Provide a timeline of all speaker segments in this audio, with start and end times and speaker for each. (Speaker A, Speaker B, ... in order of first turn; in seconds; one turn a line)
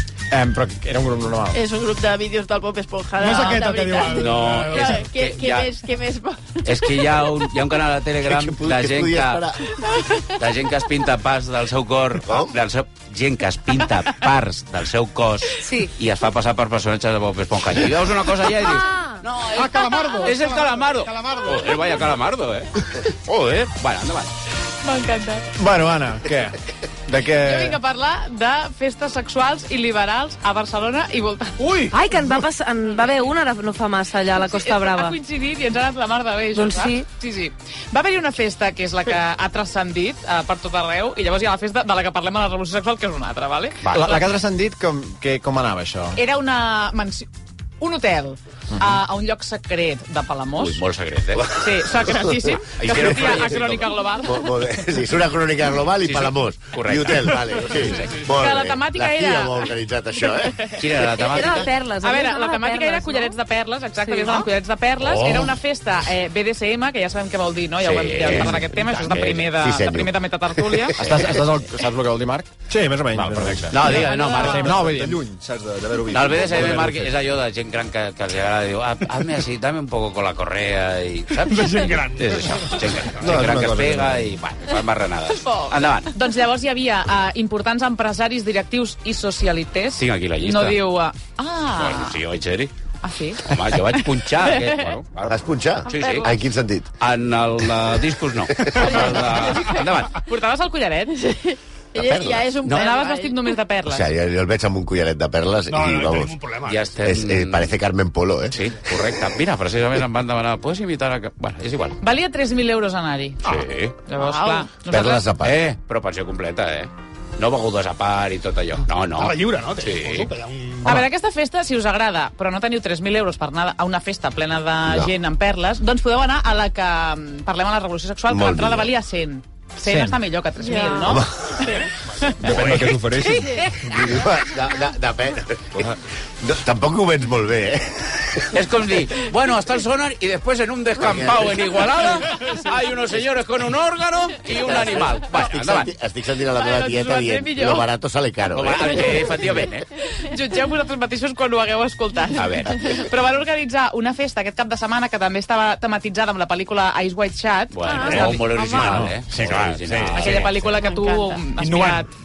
Speaker A: 0.3-1.6
Speaker B: 1.5-6.9
Speaker C: 3.2-5.0
Speaker D: 4.1-5.7
Speaker D: 6.6-9.4
Speaker E: 8.2-9.6
Speaker D: 10.3-24.3
Speaker E: 12.2-12.5
Speaker F: 15.6-15.9
Speaker F: 18.6-19.2
Speaker C: 19.5-22.0
Speaker G: 24.8-25.5
Speaker A: 25.6-27.8
Speaker G: 27.4-31.6
Speaker C: 31.6-31.9
Speaker F: 31.9-35.2
Speaker G: 34.4-43.8
Speaker F: 36.5-37.1
Speaker D: 43.8-44.2
Speaker A: 43.9-46.2
Speaker G: 46.1-47.3
Speaker G: 47.8-50.8
Speaker D: 50.5-51.5
Speaker E: 51.4-60.7
Speaker G: 51.6-54.7
Speaker D: 52.7-53.9
Speaker D: 56.0-58.2
Speaker G: 58.2-59.7
Speaker D: 60.7-61.7
Speaker F: 61.1-63.4
Speaker G: 61.4-71.0
Speaker F: 64.0-64.5
Speaker D: 65.0-65.6
Speaker D: 67.8-69.5
Speaker E: 69.5-71.4
Speaker A: 71.0-75.2
Speaker D: 71.0-71.3
Speaker H: 73.2-77.1
Speaker D: 73.7-74.7
Speaker G: 73.8-74.7
Speaker D: 76.1-86.1
Speaker C: 81.5-83.1
Speaker H: 83.2-84.3
Speaker G: 86.1-92.2
Speaker D: 89.9-90.8
Speaker D: 91.7-92.7
Speaker G: 93.0-94.9
Speaker D: 93.4-96.3
Speaker E: 95.3-96.9
Speaker B: 95.9-96.3
Speaker D: 97.0-100.2
Speaker E: 98.6-99.0
Speaker G: 100.1-101.2
Speaker B: 101.1-103.5
Speaker E: 101.9-102.5
Speaker G: 102.6-104.0
Speaker E: 103.8-106.3
Speaker C: 105.7-107.0
Speaker D: 106.7-107.7
Speaker E: 107.0-108.6
Speaker D: 108.5-112.0
Speaker G: 112.0-113.4
Speaker D: 113.4-114.0
Speaker G: 114.0-115.2
Speaker B: 114.2-114.7
Speaker E: 114.8-115.6
Speaker D: 115.4-120.3
Speaker C: 119.1-121.0
Speaker G: 120.8-131.2
Speaker E: 124.8-125.1
Speaker E: 128.3-128.9
Speaker A: 129.8-130.2
Speaker B: 130.6-131.9
Speaker E: 131.0-131.6
Speaker H: 132.4-133.9
Speaker D: 132.4-133.0
Speaker B: 133.2-133.6
Speaker G: 133.2-134.1
Speaker E: 133.9-138.5
Speaker D: 138.5-145.9
Speaker E: 141.0-141.6
Speaker E: 144.5-149.5
Speaker G: 146.5-147.9
Speaker D: 148.5-149.8
Speaker G: 150.2-158.4
Speaker D: 152.3-152.9
Speaker D: 157.7-160.7
Speaker B: 157.8-159.1
Speaker A: 158.3-160.4
Speaker G: 160.1-162.1
Speaker B: 160.8-161.4
Speaker C: 161.6-162.0